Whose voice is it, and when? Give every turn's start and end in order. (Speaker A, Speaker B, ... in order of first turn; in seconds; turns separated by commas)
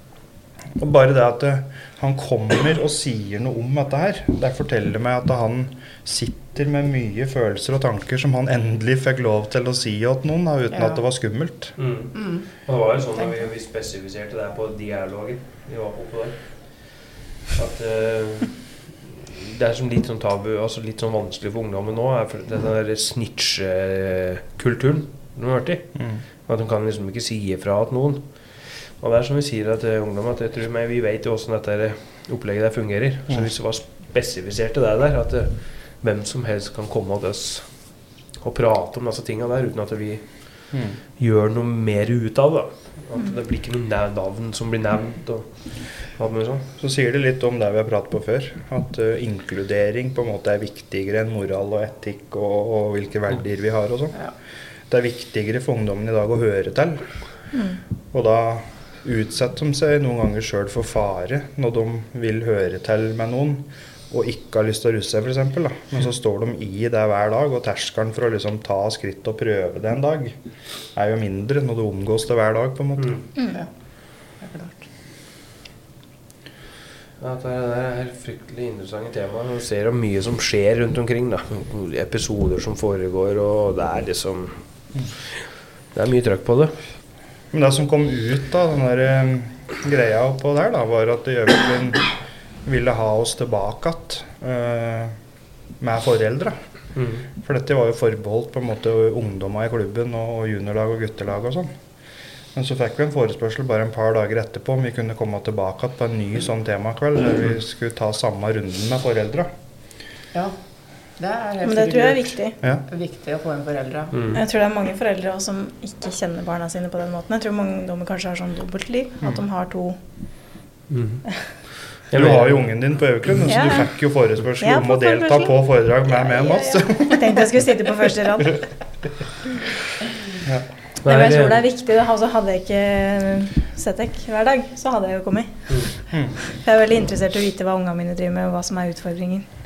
Speaker A: 0.7-11.7, Speaker B: 10.7-11.0, Speaker C: 11.8-46.7, Speaker B: 12.1-13.4, Speaker A: 40.7-41.0, Speaker A: 46.8-54.3, Speaker A: 54.9-57.0, Speaker D: 57.5-57.8, Speaker A: 58.1-70.3, Speaker A: 70.9-73.2, Speaker C: 73.0-73.2, Speaker D: 73.3-73.6, Speaker B: 73.5-74.9, Speaker C: 77.2-86.8, Speaker A: 87.5-92.1, Speaker A: 92.6-95.2, Speaker A: 95.8-96.6, Speaker C: 96.9-97.2, Speaker A: 97.4-101.7, Speaker A: 102.5-109.5, Speaker B: 110.3-110.6, Speaker B: 111.2-114.2, Speaker D: 111.6-112.6, Speaker C: 114.1-114.4, Speaker D: 114.3-120.0, Speaker C: 120.9-123.2, Speaker A: 122.1-127.7, Speaker D: 123.5-123.9, Speaker D: 124.6-128.6, Speaker C: 131.0-131.6, Speaker D: 131.0-139.4